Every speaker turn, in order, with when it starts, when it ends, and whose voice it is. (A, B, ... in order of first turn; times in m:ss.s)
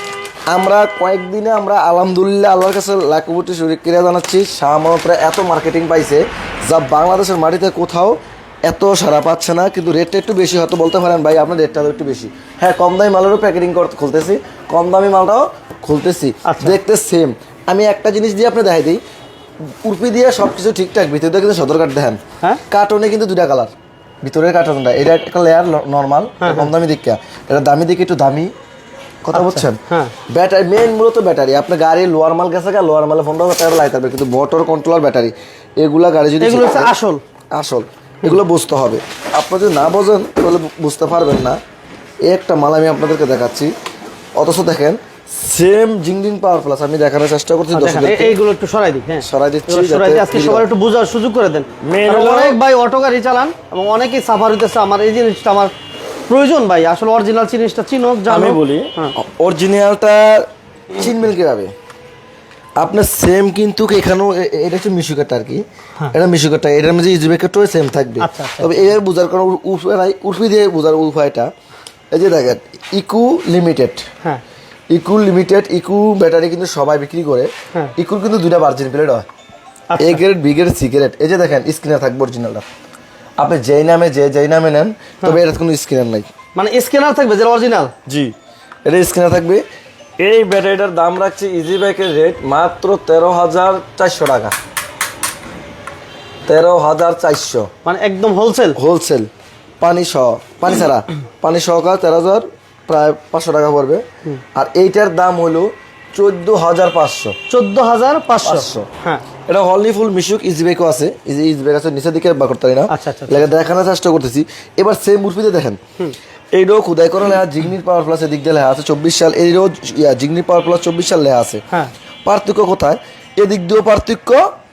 0:00.5-0:19.0 A
0:16.4-0:16.8 B
0:19.8-0:22.2 A
0:22.7-0:23.7 A
0:24.2-0:28.5 A
0:26.4-0:26.7 B
0:29.2-0:29.8 A
0:29.3-0:30.1 B
0:30.3-0:36.9 A
0:36.4-0:37.2 B
0:37.5-0:41.6 A
0:42.2-0:43.7 A
0:44.4-0:48.4 A
0:47.7-0:55.7 B
0:49.2-0:50.7 A
0:51.8-0:52.6 A
0:56.3-0:59.1 B
0:58.3-1:01.7 A
1:02.8-1:11.5 A
1:08.2-1:08.9 B
1:12.1-1:14.0 A
1:14.9-1:19.2 A
1:19.9-1:20.2 B
1:20.0-1:22.6 A
1:23.4-1:26.3 A
1:26.5-1:27.9 B
1:28.1-1:28.3 A
1:28.9-1:29.6 A
1:30.2-1:34.5 A
1:36.5-1:37.7 A
1:37.8-1:38.8 B
1:38.8-1:39.3 A
1:39.8-1:44.0 A
1:44.5-1:47.4 A
1:47.5-1:49.2 B
1:48.4-1:48.9 A
1:49.5-1:55.8 A
1:52.9-1:53.5 B
1:56.5-2:01.6 A
2:02.2-2:04.4 A